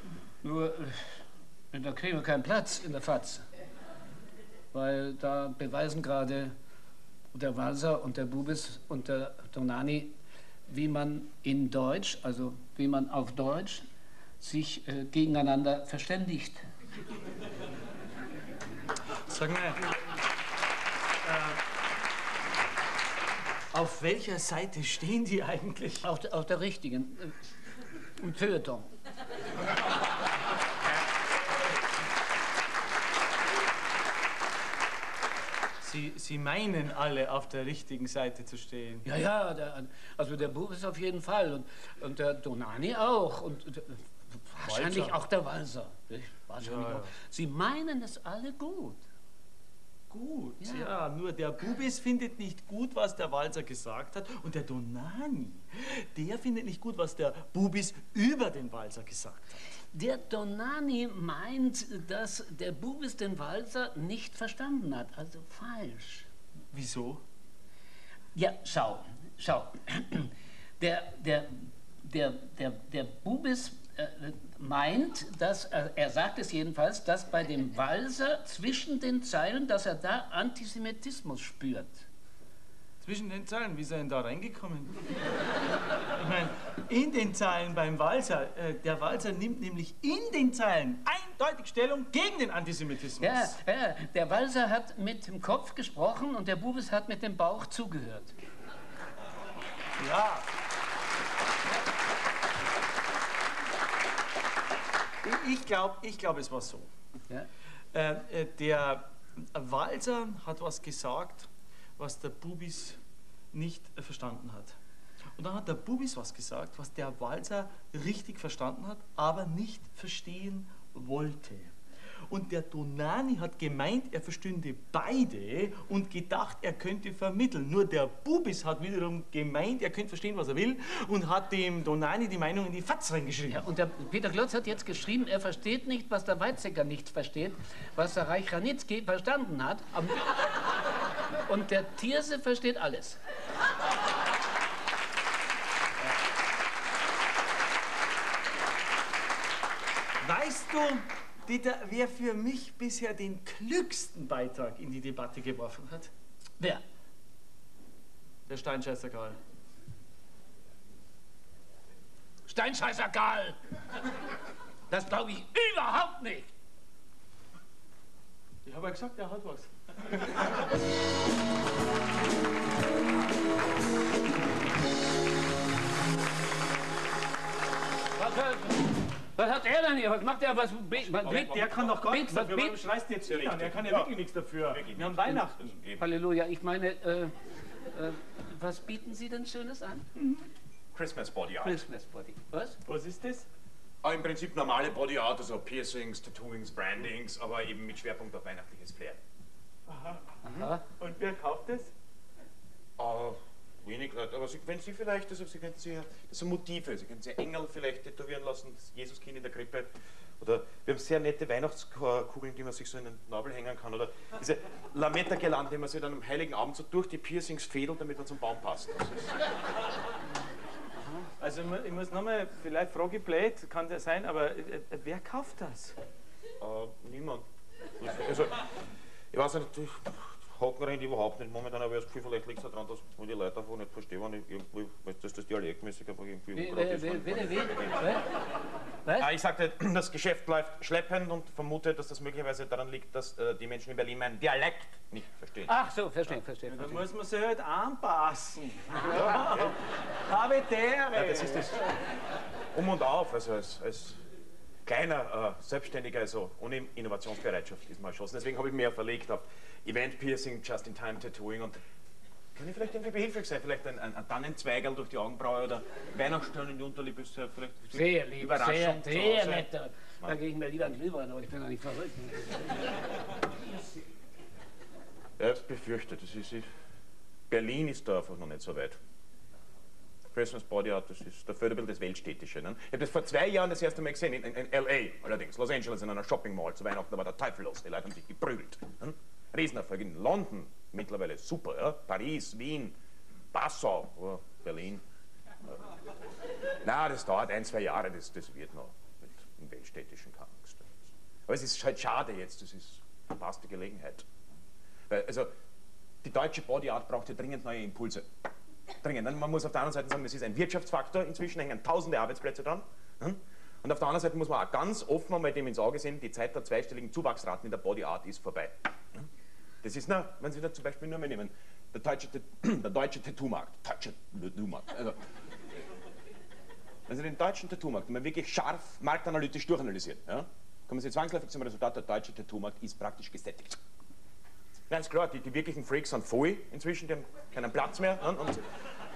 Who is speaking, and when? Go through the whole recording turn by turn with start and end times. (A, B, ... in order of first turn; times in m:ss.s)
0:00.4-0:03.4 A
0:04.7-0:06.5 A
0:07.3-0:10.2 A
0:10.7-0:13.9 A
0:14.4-0:16.6 A
0:19.3-0:20.0 B
0:21.2-0:21.6 B
0:23.7-0:26.1 B
0:26.0-0:27.4 A
0:28.2-0:28.9 A
0:35.8-0:39.1 B
0:39.0-0:49.0 A
0:44.6-0:45.2 B
0:46.6-0:47.2 B
0:50.1-0:59.6 B
0:50.6-0:50.9 A
0:59.9-1:06.3 A
1:06.7-1:07.2 B
1:08.3-1:22.1 A
1:23.0-1:25.0 B
1:26.1-1:33.6 B
1:33.2-1:38.4 A
1:40.0-1:40.5 B
1:45.2-1:46.9 B
1:47.9-1:53.0 B
1:53.5-1:54.8 B
1:55.4-2:01.7 B
2:02.3-2:13.6 B
2:13.5-2:20.4 A
2:21.5-2:23.2 A
2:30.2-2:36.1 B
2:38.5-2:39.4 B
2:42.5-2:43.6 A
2:44.9-2:46.5 A
2:48.6-2:50.5 B
2:58.2-3:02.8 A
3:01.0-3:01.9 C
3:01.2-3:05.8 B
3:03.2-3:06.1 C
3:06.0-3:07.3 A
3:07.9-3:10.1 A
3:10.2-3:10.4 B
3:10.9-3:11.8 C
3:11.6-3:12.8 A
3:12.8-3:13.5 B
3:14.0-3:19.2 C
3:19.9-3:20.2 B
3:20.4-3:20.8 A
3:20.9-3:21.9 B
3:23.0-3:39.3 C
3:41.4-3:46.0 B
3:46.6-3:47.4 C
3:48.0-3:48.6 C
3:49.3-3:58.1 C
3:56.6-3:58.3 A
3:59.2-4:05.7 C
4:05.7-4:07.0 A
4:06.7-4:11.8 B
4:09.0-4:09.7 C
4:11.2-4:11.8 C
4:12.7-4:14.2 C
4:14.8-4:21.8 C
4:22.6-4:29.7 C
4:27.9-4:32.9 A
4:35.4-4:36.7 C
4:37.5-4:39.0 C
4:40.3-4:53.0 C
4:53.5-4:55.0 C
4:56.8-5:00.9 C
5:01.5-5:04.3 C
5:05.1-5:05.5 C
5:06.2-5:08.3 C
5:09.0-5:19.3 C
5:19.8-5:25.2 C
5:27.1-5:33.8 C
5:34.9-5:38.6 C